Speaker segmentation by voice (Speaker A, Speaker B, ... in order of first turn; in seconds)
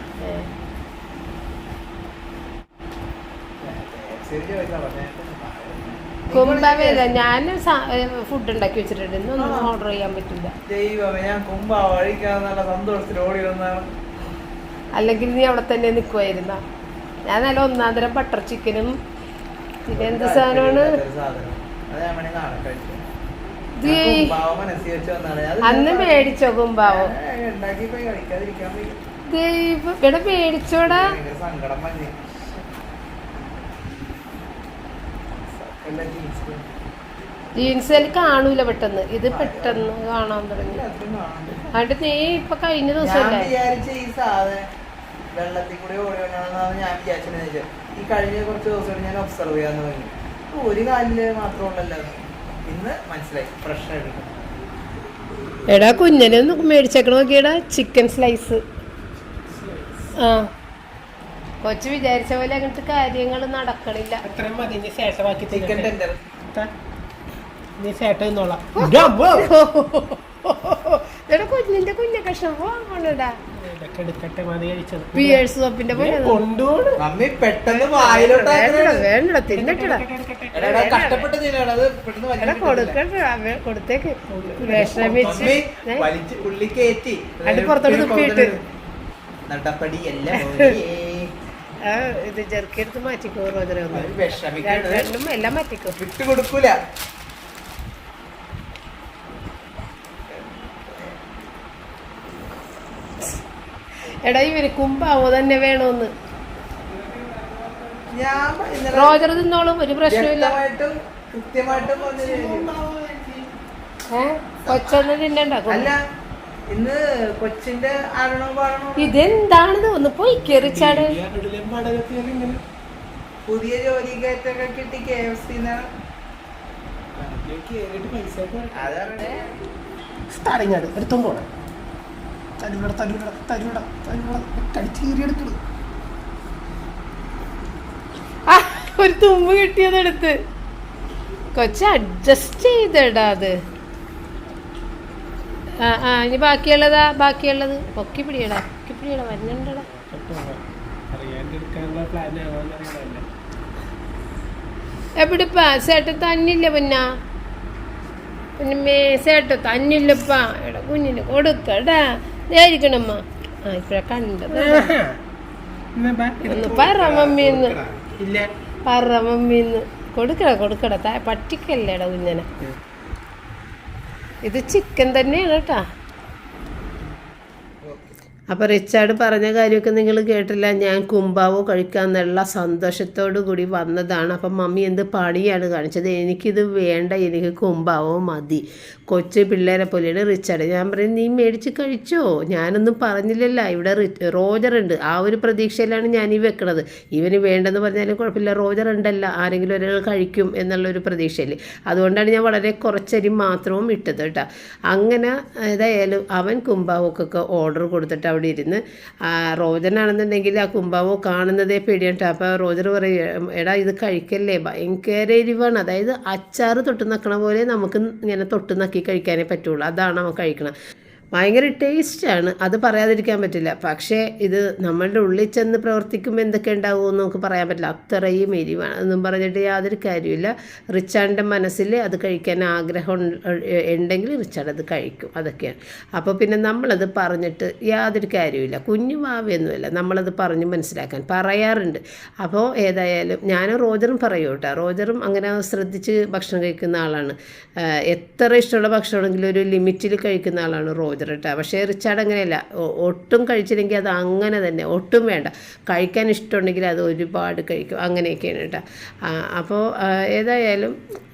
Speaker A: 0.2-0.5, 6.3-10.5, 15.0-16.6, 17.3-19.0, 19.9-21.0, 23.8-24.3, 25.6-27.1, 29.3-31.1, 37.5-40.8, 41.7-43.5, 55.7-58.6, 60.2-60.5, 61.6-64.2, 68.8-73.4, 75.1-76.4, 77.7-80.0, 80.6-81.3, 82.4-86.1, 87.5-88.5, 90.3-90.7, 91.8-96.0, 104.2-106.1, 108.9-110.6, 114.1-115.9, 119.0-121.2, 138.5-140.4, 141.5-143.5, 145.8-149.8, 155.2-157.0, 158.6-164.9, 166.4-167.8, 168.9-172.4, 174.4-175.8, 178.5-220.7, 221.3-261.0
Speaker B: 3.6-7.2, 9.3-9.8, 10.7-13.9, 19.9-23.1, 23.8-29.0, 30.8-32.6, 33.8-34.2, 35.4-36.7, 39.3-39.9, 40.6-41.7, 43.0-44.6, 45.3-54.6, 65.5-66.2, 77.0-79.1, 80.5-83.0, 85.2-88.6, 89.5-91.3, 93.9-95.1, 96.0-96.8, 100.3-101.2, 108.1-109.3, 110.0-112.8, 114.6-115.1, 115.7-116.0, 116.7-119.2, 123.5-125.9, 128.7-129.6, 166.5-168.2, 177.8-178.1
Speaker C: 59.5-60.1, 64.2-65.9, 67.8-69.5, 73.5-77.0, 79.5-80.8, 84.3-85.5, 106.9-108.1, 111.7-113.5, 120.5-122.6, 127.2-128.9, 130.3-131.5, 132.6-135.6, 149.8-153.2, 164.5-165.2, 165.9-166.9, 168.2-168.5